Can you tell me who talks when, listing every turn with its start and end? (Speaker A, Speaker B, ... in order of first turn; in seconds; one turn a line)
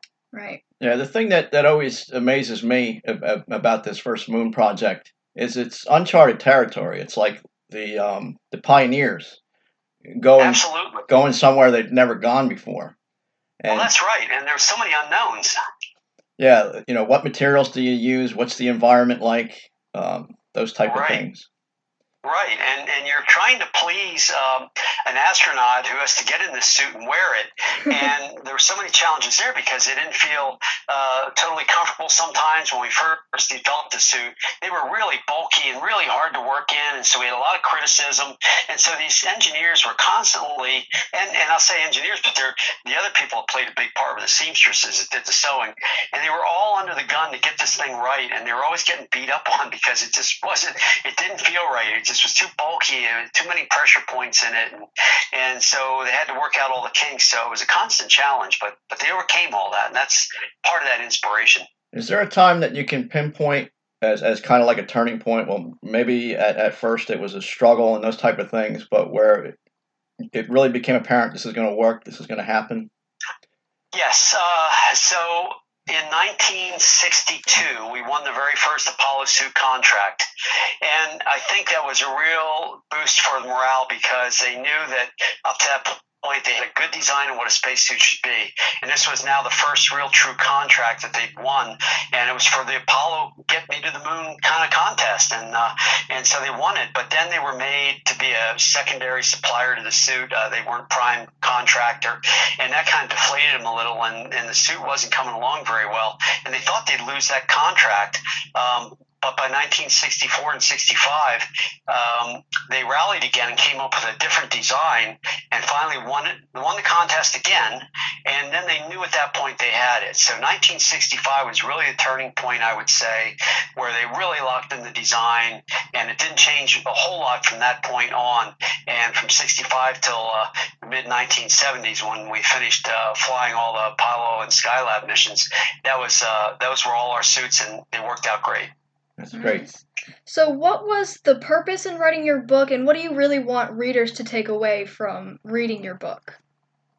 Speaker A: 0.3-0.6
Speaker B: 0.8-9.4
Speaker B: 10.1-12.9
Speaker C: 10.4-11.1
Speaker B: 13.6-13.9
Speaker C: 13.7-15.6
Speaker B: 16.4-21.5
Speaker C: 20.9-21.2
Speaker C: 22.2-61.6
Speaker B: 61.9-69.6
Speaker B: 70.3-72.9
Speaker C: 73.9-80.3
Speaker C: 80.8-138.7
Speaker B: 139.2-139.7
Speaker A: 139.3-146.4